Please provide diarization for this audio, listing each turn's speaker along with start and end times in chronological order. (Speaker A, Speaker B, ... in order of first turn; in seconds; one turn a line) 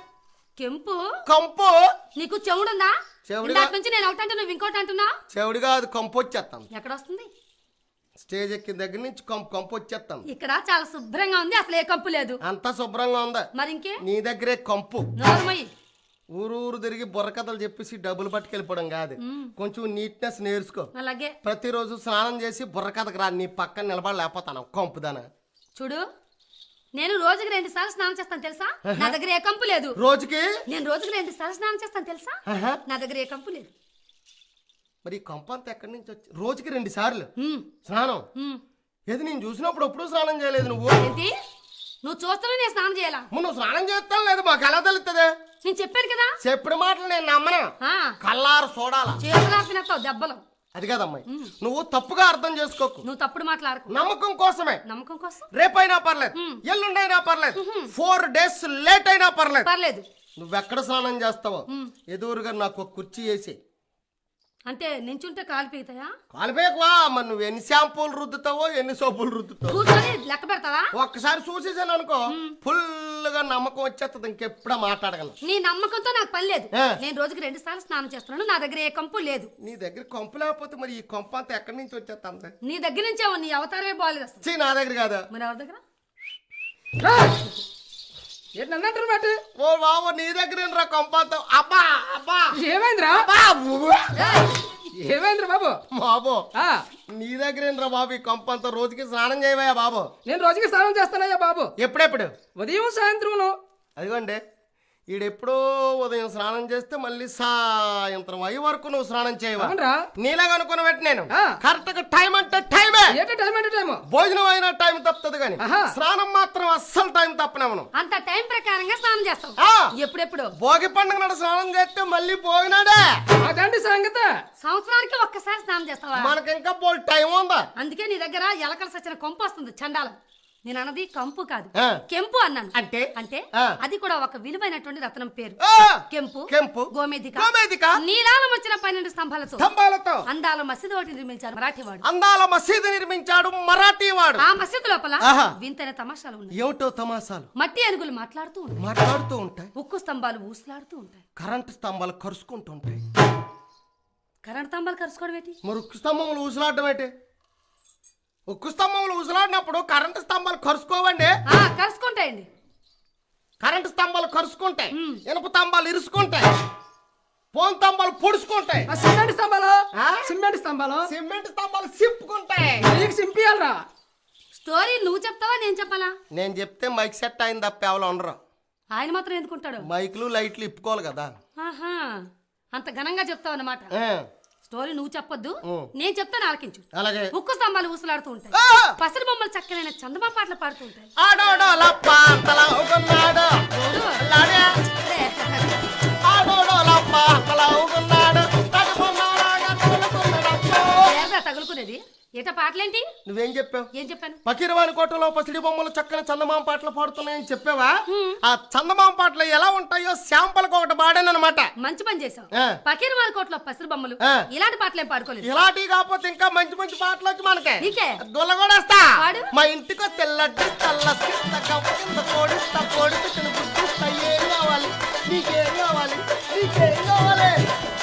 Speaker A: 0.6-1.1
Speaker B: 1.2-1.9
Speaker A: 2.2-2.9
Speaker B: 3.3-3.7
Speaker A: 3.4-5.1
Speaker B: 5.3-6.7
Speaker A: 6.7-7.3
Speaker B: 8.2-10.2
Speaker A: 10.3-12.4
Speaker B: 12.4-13.5
Speaker A: 13.5-14.0
Speaker B: 14.0-15.1
Speaker A: 15.2-15.7
Speaker B: 16.3-20.9
Speaker A: 19.2-19.5
Speaker A: 20.9-21.4
Speaker B: 21.4-25.2
Speaker A: 25.8-26.0
Speaker A: 26.9-30.0
Speaker B: 28.8-29.1
Speaker B: 30.0-30.5
Speaker A: 30.7-33.7
Speaker B: 32.5-32.8
Speaker B: 35.0-37.3
Speaker A: 37.4-37.7
Speaker B: 37.8-38.2
Speaker A: 38.4-38.6
Speaker B: 39.1-41.0
Speaker A: 41.0-41.3
Speaker A: 42.0-43.3
Speaker B: 43.3-45.3
Speaker A: 45.6-46.3
Speaker B: 46.4-47.7
Speaker A: 47.8-48.1
Speaker B: 48.2-49.2
Speaker A: 49.2-50.4
Speaker B: 50.7-53.0
Speaker A: 53.0-53.9
Speaker B: 53.9-54.8
Speaker A: 54.9-55.5
Speaker B: 55.5-59.7
Speaker A: 56.3-56.6
Speaker A: 57.5-57.9
Speaker A: 59.6-60.0
Speaker B: 60.4-63.5
Speaker A: 64.7-66.1
Speaker B: 66.3-69.8
Speaker A: 69.7-70.9
Speaker B: 70.9-75.3
Speaker A: 72.3-72.5
Speaker A: 75.4-79.5
Speaker B: 79.6-82.5
Speaker A: 82.6-84.4
Speaker B: 84.4-85.3
Speaker A: 85.3-85.8
Speaker C: 87.0-87.5
Speaker C: 88.5-89.4
Speaker B: 89.6-92.5
Speaker C: 92.5-93.3
Speaker B: 93.1-94.4
Speaker A: 94.2-94.5
Speaker C: 94.3-95.8
Speaker B: 95.9-96.5
Speaker C: 96.5-96.8
Speaker B: 97.1-100.1
Speaker C: 100.2-101.7
Speaker B: 101.8-102.3
Speaker C: 102.6-103.6
Speaker B: 104.0-104.4
Speaker B: 105.1-113.2
Speaker C: 109.6-110.1
Speaker C: 113.1-114.0
Speaker B: 114.1-117.9
Speaker C: 115.6-115.9
Speaker A: 117.9-120.5
Speaker B: 119.6-119.9
Speaker B: 120.6-123.1
Speaker C: 123.4-124.3
Speaker A: 124.6-126.3
Speaker B: 126.2-127.6
Speaker A: 127.8-135.6
Speaker B: 132.7-133.8
Speaker B: 135.6-138.0
Speaker A: 136.1-139.7
Speaker B: 139.6-140.2
Speaker A: 140.3-142.0
Speaker B: 142.1-144.4
Speaker A: 144.4-146.6
Speaker B: 145.2-145.5
Speaker B: 146.5-147.5
Speaker A: 147.6-148.8
Speaker B: 148.8-149.7
Speaker A: 149.8-151.2
Speaker B: 151.4-153.0
Speaker A: 154.4-155.6
Speaker B: 155.6-157.1
Speaker B: 158.5-161.3
Speaker A: 161.5-162.5
Speaker B: 163.6-166.5
Speaker A: 164.9-165.2
Speaker B: 167.5-168.9
Speaker C: 168.9-171.1
Speaker B: 169.9-170.2
Speaker B: 171.1-172.8
Speaker C: 172.8-173.8
Speaker A: 174.5-176.1
Speaker B: 176.3-178.4
Speaker A: 178.9-179.9
Speaker B: 179.8-181.3
Speaker A: 181.6-183.9
Speaker B: 183.9-184.2
Speaker A: 184.6-191.2
Speaker B: 186.9-187.3
Speaker B: 188.5-188.9
Speaker B: 191.2-193.5
Speaker A: 193.7-194.2
Speaker B: 194.2-194.7
Speaker A: 194.8-195.8
Speaker B: 196.2-201.2
Speaker A: 201.1-203.0
Speaker B: 203.2-203.9
Speaker A: 203.9-204.4
Speaker B: 204.4-211.7
Speaker A: 208.1-208.4
Speaker A: 211.8-215.5
Speaker B: 215.4-227.6
Speaker A: 217.8-218.2
Speaker A: 219.2-219.5